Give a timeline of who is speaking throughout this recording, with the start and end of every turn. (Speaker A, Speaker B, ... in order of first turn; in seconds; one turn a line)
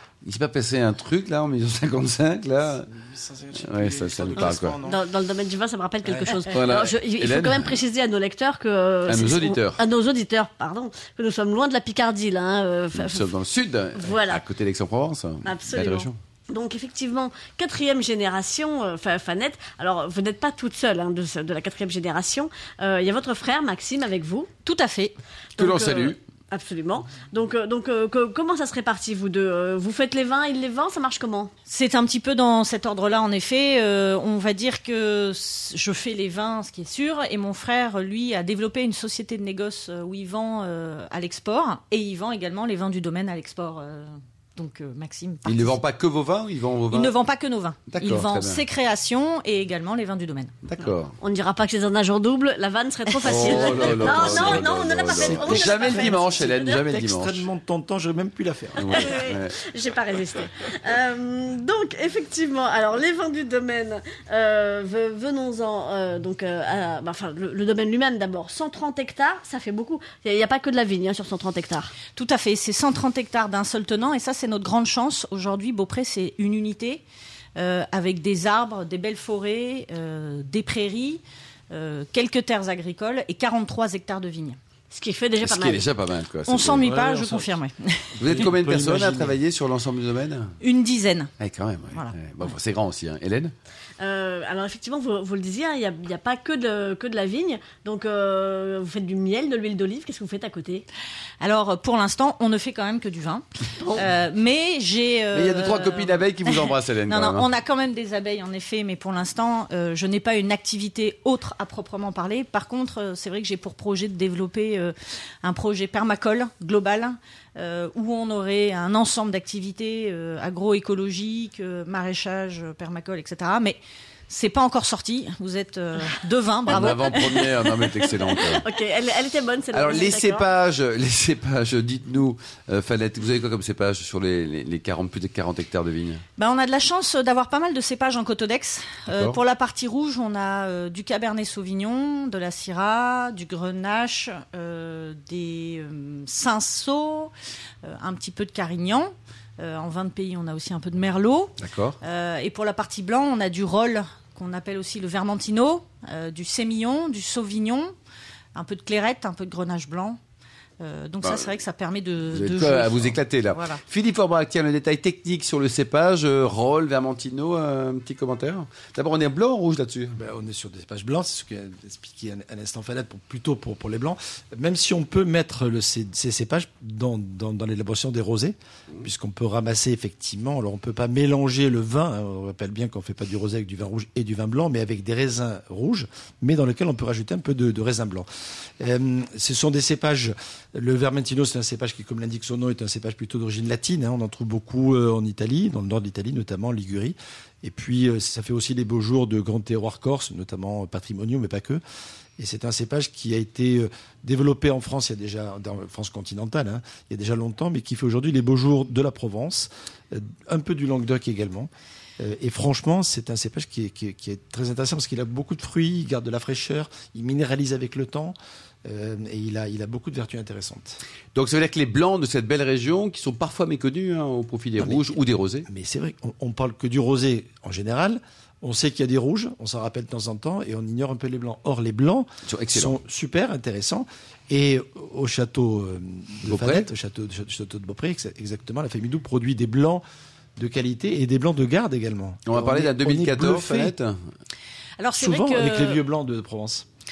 Speaker A: 0.2-2.9
Speaker B: 2.9-5.1
Speaker A: 3.5-4.8
Speaker C: 4.4-13.3
Speaker B: 6.0-6.6
Speaker A: 6.2-7.8
Speaker A: 9.1-9.8
Speaker A: 12.9-16.2
Speaker C: 13.9-14.4
Speaker C: 15.4-24.5
Speaker D: 24.6-25.1
Speaker C: 25.6-31.5
Speaker A: 25.6-26.2
Speaker D: 31.7-45.8
Speaker A: 45.5-47.1
Speaker D: 46.9-50.5
Speaker A: 47.9-48.6
Speaker A: 50.6-51.1
Speaker C: 51.2-56.8
Speaker A: 53.2-57.4
Speaker B: 53.4-59.3
Speaker A: 58.8-59.5
Speaker C: 58.8-71.9
Speaker D: 72.1-77.0
Speaker D: 77.5-84.6
Speaker C: 84.9-85.8
Speaker A: 85.4-86.9
Speaker D: 86.5-88.1
Speaker B: 86.8-87.5
Speaker B: 88.2-89.3
Speaker A: 88.2-90.5
Speaker D: 90.6-91.3
Speaker A: 91.4-93.5
Speaker C: 94.0-100.8
Speaker D: 101.4-123.8
Speaker C: 103.8-104.0
Speaker A: 105.3-107.5
Speaker D: 124.3-127.4
Speaker A: 126.7-128.6
Speaker C: 127.2-130.5
Speaker A: 129.7-136.2
Speaker D: 136.4-147.3
Speaker A: 139.1-139.4
Speaker D: 147.8-157.9
Speaker A: 151.6-152.0
Speaker D: 158.5-160.2
Speaker D: 160.8-163.8
Speaker A: 161.2-161.5
Speaker A: 162.3-170.1
Speaker B: 170.1-188.3
Speaker B: 188.8-201.8
Speaker B: 202.4-221.0
Speaker A: 221.3-225.7
Speaker B: 224.8-240.0
Speaker A: 232.5-232.9
Speaker A: 236.4-236.9
Speaker B: 240.6-243.9
Speaker A: 242.5-244.2
Speaker D: 245.0-246.0
Speaker B: 245.2-246.8